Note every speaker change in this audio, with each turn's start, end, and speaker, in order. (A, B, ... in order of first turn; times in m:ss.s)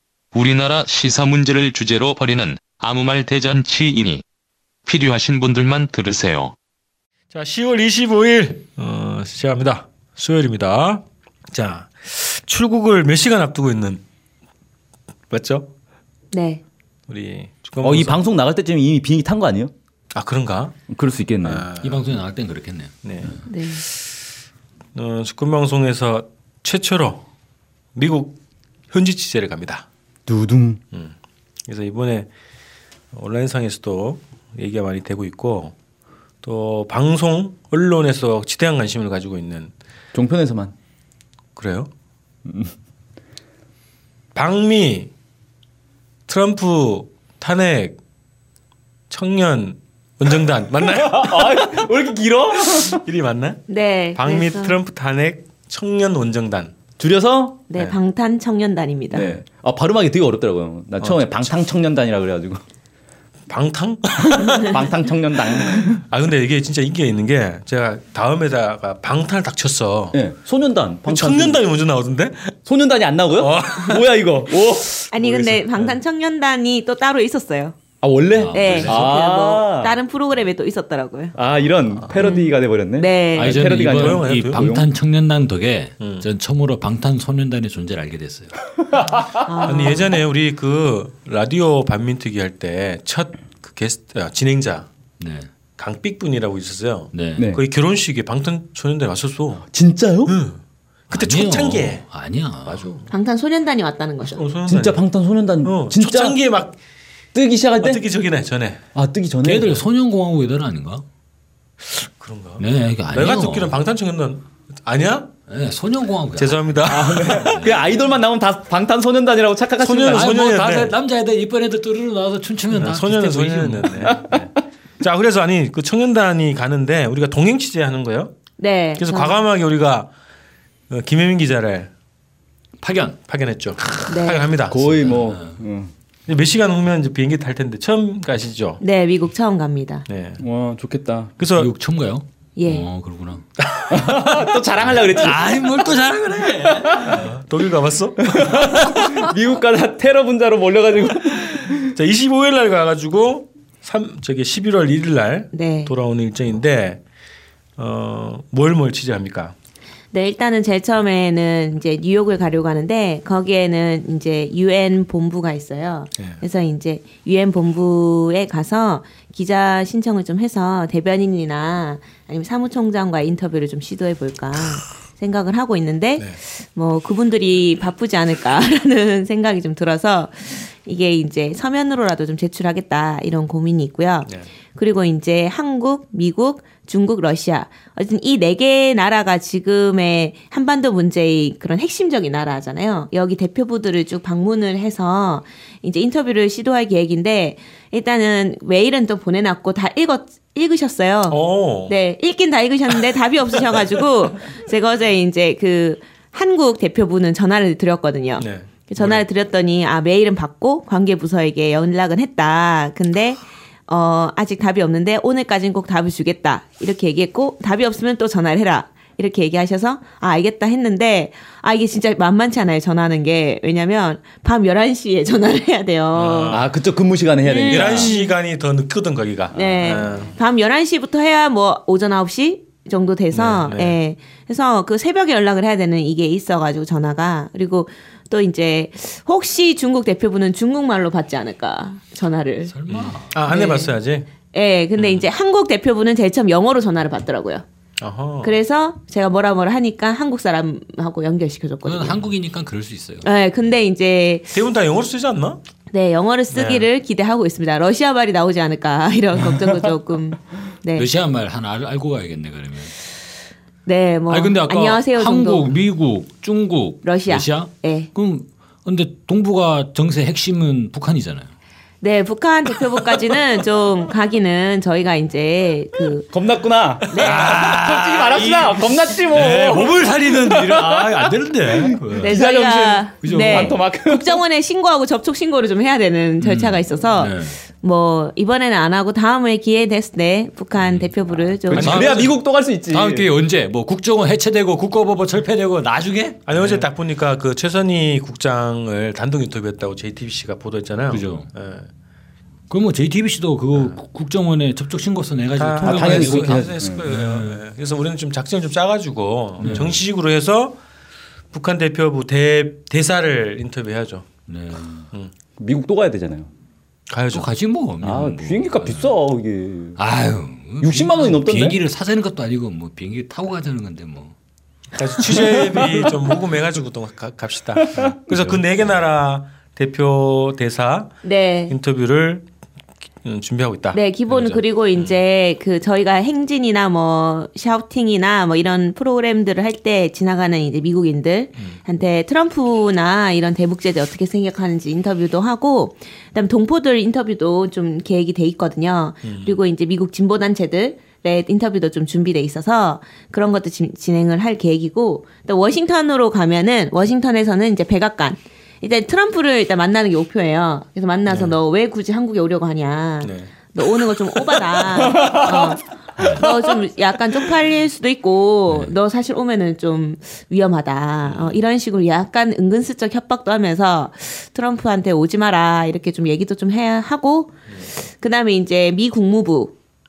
0:00.3-0:04.2 A
0:04.8-0:06.6 A
0:07.3-0:14.0 B
0:15.3-0:15.7 B
0:16.3-0:16.6 C
0:17.1-0:18.2 B
0:17.8-0:19.7 D
0:20.1-0:20.7 B
0:20.9-0:21.7 D
0:21.4-0:22.1 B
0:21.8-0:23.4 E
0:23.0-0:23.3 B
0:23.5-0:23.8 C
0:24.9-0:27.2 B
0:27.9-0:28.4 B
0:28.9-0:29.8 B
0:30.3-0:30.8 D
0:31.7-0:32.3 B
0:33.1-0:35.7 B
0:36.4-0:39.7 B
0:40.1-0:40.7 D
0:41.6-0:41.9 B
0:42.4-0:42.7 D
0:44.3-0:45.1 B
0:46.3-0:48.0 B
0:49.1-0:51.8 B
0:51.1-0:53.0 D
0:52.6-0:53.6 B
0:53.7-0:54.8 C
0:54.2-0:56.7 B
0:57.0-0:57.7 D
0:57.7-0:59.3 C
0:59.1-1:02.6 D
1:01.0-1:01.6 B
1:03.5-1:04.9 B
1:04.5-1:06.0 D
1:05.7-1:10.2 B
1:10.1-1:11.6 D
1:11.0-1:12.5 B
1:12.6-1:15.0 D
1:13.3-1:14.1 B
1:15.0-1:16.0 B
1:15.1-1:17.8 C
1:18.0-1:20.0 D
1:18.3-1:19.1 E
1:18.5-1:21.3 C
1:21.3-1:24.8 D
1:22.0-1:22.3 B
1:22.2-1:23.6 C
1:23.4-1:28.6 E
1:23.6-1:24.8 B
1:26.0-1:26.3 B
1:29.4-1:30.2 C
1:29.6-1:34.9 B
1:35.2-1:35.5 E
1:35.8-1:39.6 B
1:37.1-1:37.5 E
1:37.4-1:37.6 D
1:39.7-1:40.4 D
1:40.2-1:42.0 B
1:41.1-1:43.0 E
1:42.6-1:43.1 B
1:43.1-1:44.4 C
1:44.2-1:45.0 B
1:44.6-1:46.4 D
1:45.6-1:46.8 B
1:47.3-1:48.0 D
1:47.8-1:48.8 B
1:48.9-1:49.8 D
1:49.4-1:51.0 E
1:51.9-1:55.3 B
1:52.6-1:53.8 E
1:55.5-1:57.8 E
1:56.3-1:57.8 B
1:56.8-2:00.4 D
1:59.8-2:00.9 B
2:00.1-2:04.1 E
2:02.7-2:08.3 B
2:04.0-2:04.5 D
2:08.6-2:09.4 C
2:09.0-2:10.1 B
2:10.9-2:11.9 B
2:12.8-2:13.2 E
2:13.3-2:14.9 B
2:14.1-2:14.5 C
2:14.7-2:15.9 D
2:15.0-2:15.6 E
2:16.3-2:18.8 B
2:18.8-2:20.0 C
2:20.1-2:20.4 B
2:20.4-2:21.3 D
2:21.4-2:21.7 B
2:21.5-2:23.4 E
2:22.6-2:22.9 C
2:23.6-2:24.6 B
2:23.9-2:25.7 D
2:24.8-2:27.0 E
2:26.7-2:27.3 D
2:26.9-2:29.3 B
2:28.2-2:31.8 D
2:31.7-2:37.0 B
2:35.5-2:35.9 C
2:37.8-2:39.5 B
2:40.1-3:46.6 C
2:46.2-2:46.4 B
3:21.3-3:22.0 B
3:28.4-3:29.2 B
3:46.1-3:46.7 B
3:46.5-3:48.2 D
3:47.4-3:48.3 C
3:47.6-3:50.4 B
3:49.5-4:02.7 C
3:49.7-3:49.9 D
3:53.3-3:54.0 B
4:02.6-4:03.3 E
4:02.9-4:04.3 B
4:03.5-4:04.0 C
4:04.5-4:07.6 C
4:05.0-4:05.3 B
4:08.0-4:08.6 B
4:08.4-4:12.2 C
4:11.8-4:13.3 E
4:13.2-4:14.5 C
4:14.5-4:15.6 B
4:15.9-4:21.1 C
4:16.5-4:16.9 B
4:20.9-4:23.0 E
4:23.8-4:25.7 C
4:24.3-4:31.5 E
4:27.0-4:28.1 C
4:32.0-4:36.3 C
4:36.3-4:44.4 D
4:37.1-4:37.4 C
4:37.1-4:42.2 B
4:37.2-4:38.4 E
4:39.5-4:39.8 E
4:41.8-4:42.4 E
4:42.2-4:52.0 C
4:43.2-4:43.7 E
4:46.4-4:47.6 E
4:50.8-4:52.4 E
4:51.6-4:53.3 D
4:51.7-4:52.3 B
4:52.9-4:56.9 E
4:56.5-5:01.9 B
5:01.1-5:01.5 E
5:02.7-5:07.6 E
5:03.7-5:04.0 B
5:05.6-5:10.8 B
5:05.8-5:07.0 D
5:09.6-5:10.0 E
5:11.5-5:14.2 B
5:14.5-5:15.1 E
5:15.6-5:16.5 D
5:17.1-5:17.5 B
5:17.3-5:19.1 E
5:18.0-5:20.0 D
5:20.0-5:24.3 E
5:20.8-5:21.8 D
5:24.9-5:31.1 B
5:25.3-5:26.1 D
5:27.8-5:28.5 D
5:31.2-5:31.8 C
5:31.7-5:32.5 B
5:33.2-5:35.2 B
5:33.9-6:19.7 C
5:49.2-5:49.5 B
6:01.2-6:01.6 B
6:03.2-6:03.5 B
6:05.1-6:05.7 D
6:11.2-6:11.6 B